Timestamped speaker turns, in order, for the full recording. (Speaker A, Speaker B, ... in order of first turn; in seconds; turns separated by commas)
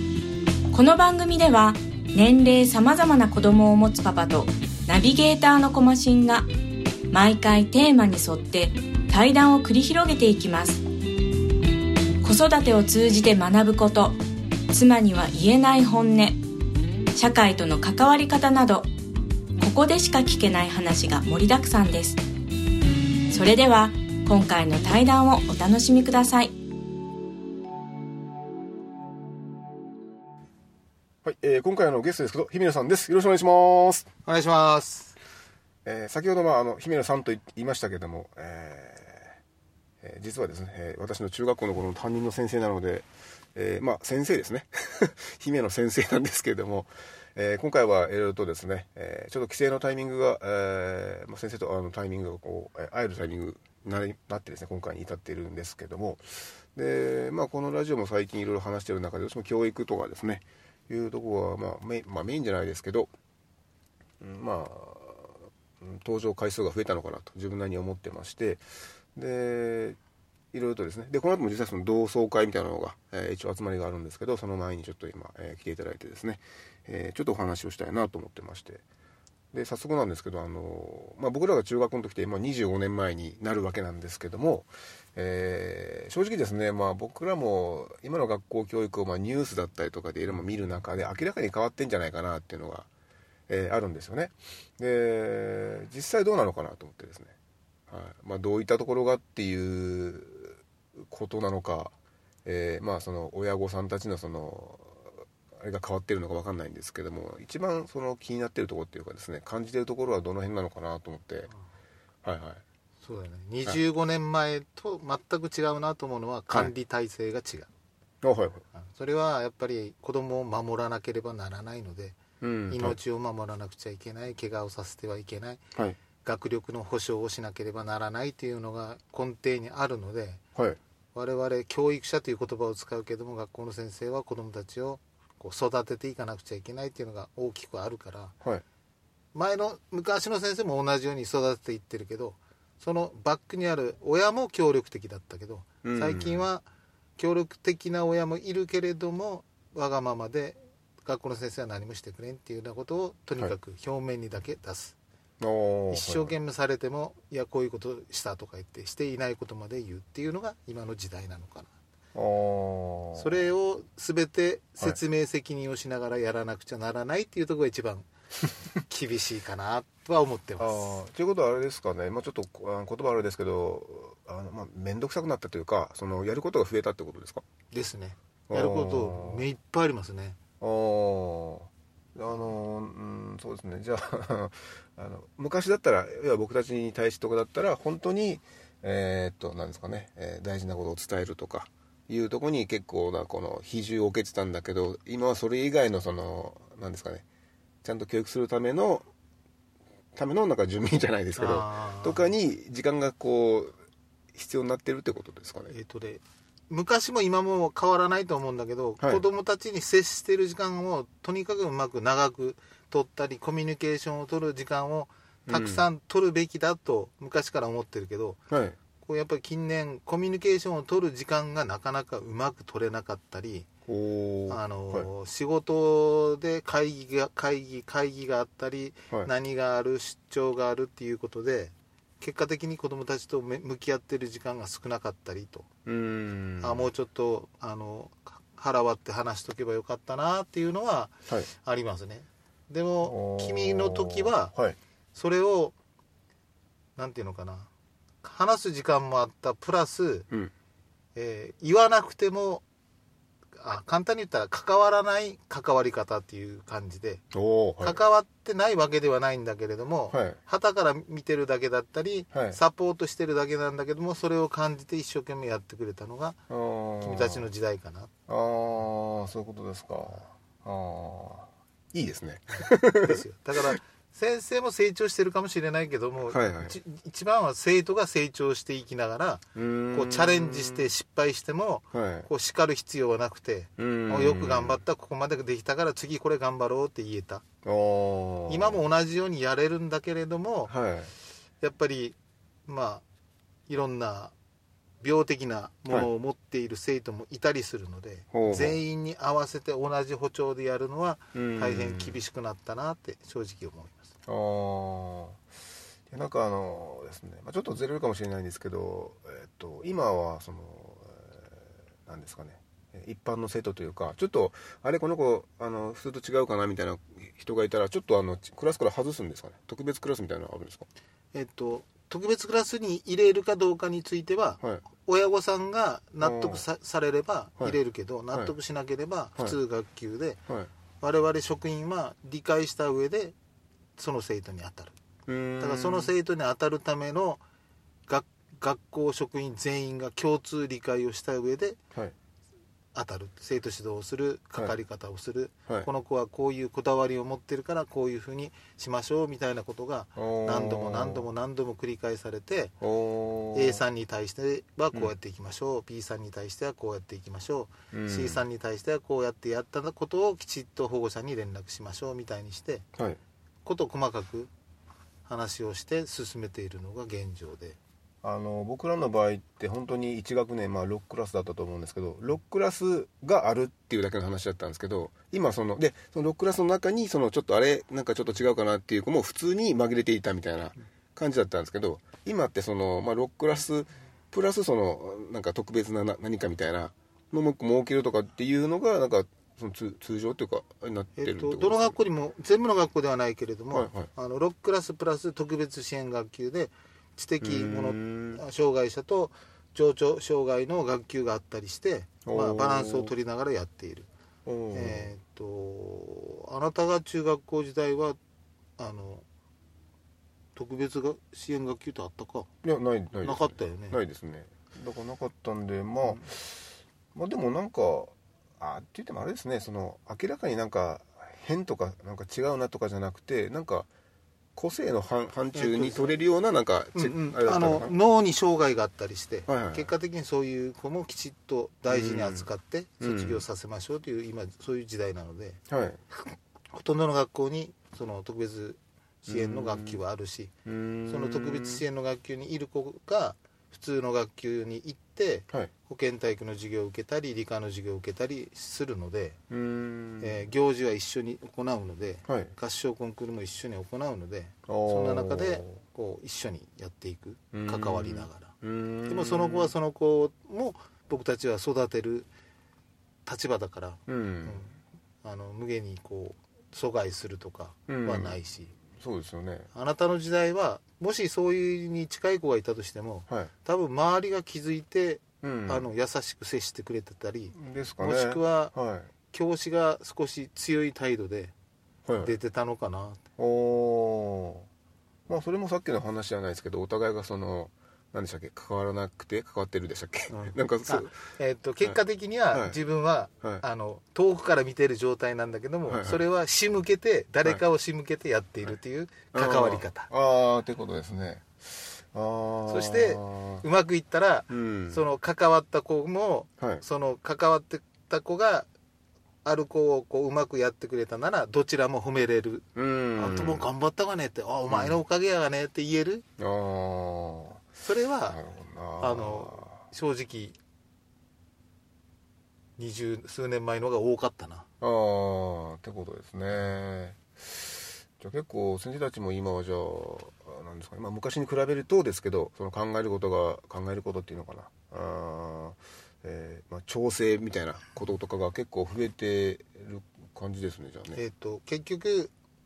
Speaker A: 0.7-6.5, Speaker A: 7.1-10.8, Speaker A: 12.2-16.4, Speaker A: 17.1-18.9, Speaker A: 19.6-22.2, Speaker A: 23.3-26.6, Speaker B: 31.2-34.1, Speaker C: 34.2-35.2, Speaker B: 35.9-39.4, Speaker B: 40.0-63.1, Speaker B: 64.2-68.6, Speaker B: 69.2-70.0, Speaker B: 70.5-78.8, Speaker B: 79.5-92.9, Speaker B: 93.5-97.3, Speaker B: 97.9-101.9, Speaker B: 102.5-111.5, Speaker B: 112.2-112.6, Speaker C: 113.0-117.7, Speaker B: 118.2-118.6, Speaker C: 118.8-125.6, Speaker B: 122.4-123.0, Speaker C: 126.2-130.4, Speaker C: 131.2-138.3, Speaker C: 139.3-146.7, Speaker B: 145.8-146.4, Speaker C: 147.2-155.0, Speaker B: 155.4-156.3, Speaker C: 155.9-161.7, Speaker B: 162.1-163.5, Speaker C: 163.2-168.1, Speaker C: 168.8-171.0, Speaker B: 170.6-177.4, Speaker C: 177.7-180.4, Speaker B: 178.5-179.4, Speaker B: 180.6-197.2, Speaker B: 197.8-199.1, Speaker B: 200.2-203.7, Speaker C: 201.4-202.3, Speaker B: 204.3-205.7, Speaker C: 205.7-218.4, Speaker B: 215.5-215.8, Speaker B: 218.5-218.8, Speaker C: 219.0-223.7, Speaker B: 223.9-225.1, Speaker C: 224.5-235.7, Speaker B: 235.8-236.9, Speaker C: 236.6-244.5, Speaker B: 243.0-244.8, Speaker C: 245.2-245.8, Speaker C: 247.0-247.7, Speaker C: 248.2-250.3, Speaker C: 251.2-252.6, Speaker C: 253.6-257.2, Speaker B: 257.3-258.0, Speaker C: 257.8-266.4, Speaker B: 260.1-260.4, Speaker B: 262.3-262.6, Speaker B: 266.5-267.5, Speaker C: 267.0-268.1, Speaker B: 268.3-273.8, Speaker C: 272.5-287.4, Speaker B: 276.3-276.8, Speaker B: 279.6-280.9, Speaker B: 281.9-282.3, Speaker B: 283.8-284.8, Speaker B: 287.6-288.8, Speaker C: 288.5-290.7, Speaker B: 290.7-291.1, Speaker C: 291.6-293.0, Speaker C: 293.7-294.3, Speaker C: 295.0-304.1, Speaker B: 298.3-298.8, Speaker B: 301.3-302.2, Speaker B: 304.3-305.4, Speaker B: 306.1-311.5, Speaker B: 312.1-320.9, Speaker C: 321.3-330.4, Speaker B: 326.2-326.6, Speaker C: 331.0-333.4, Speaker C: 334.0-334.9, Speaker B: 335.3-336.1, Speaker C: 335.6-337.4, Speaker C: 338.1-341.8, Speaker C: 342.9-352.8, Speaker B: 350.2-351.3, Speaker B: 352.8-353.8, Speaker C: 353.5-362.9, Speaker B: 357.9-358.4, Speaker C: 363.6-364.5, Speaker C: 365.3-367.8, Speaker B: 368.2-391.9, Speaker C: 391.2-404.1, Speaker B: 393.7-394.1, Speaker B: 397.4-398.4, Speaker B: 402.2-403.1, Speaker B: 404.5-405.1, Speaker C: 404.7-408.2, Speaker C: 408.8-409.2, Speaker C: 410.6-412.5, Speaker B: 412.6-423.9, Speaker C: 413.2-414.0, Speaker B: 424.6-427.9, Speaker C: 425.5-426.1, Speaker C: 426.9-435.6, Speaker B: 429.5-429.9, Speaker B: 431.9-432.5, Speaker B: 433.0-433.4, Speaker B: 435.7-436.0, Speaker C: 436.7-440.5, Speaker B: 439.3-440.0, Speaker B: 440.6-441.8, Speaker C: 441.1-449.4, Speaker B: 449.5-450.4, Speaker C: 450.2-458.5, Speaker B: 452.3-452.5, Speaker B: 454.7-455.7, Speaker B: 457.5-459.7, Speaker C: 459.1-462.3, Speaker C: 463.3-468.7, Speaker B: 464.1-464.6, Speaker B: 467.9-469.7, Speaker C: 469.7-478.7, Speaker B: 475.4-475.9, Speaker B: 477.5-479.1, Speaker C: 479.3-481.5, Speaker B: 482.1-482.3, Speaker C: 482.2-483.2, Speaker B: 483.4-484.7, Speaker B: 485.3-491.1, Speaker C: 490.3-500.1, Speaker B: 492.5-492.8, Speaker B: 495.9-496.2, Speaker B: 499.3-503.6, Speaker C: 502.7-508.7, Speaker B: 504.5-505.0, Speaker B: 506.6-506.8, Speaker C: 509.4-516.2, Speaker B: 512.8-513.7, Speaker B: 514.7-515.0, Speaker B: 516.4-517.6, Speaker C: 517.8-518.4, Speaker B: 518.3-519.8, Speaker C: 519.0-520.6, Speaker C: 522.8-524.7, Speaker B: 524.8-541.2, Speaker C: 541.1-542.3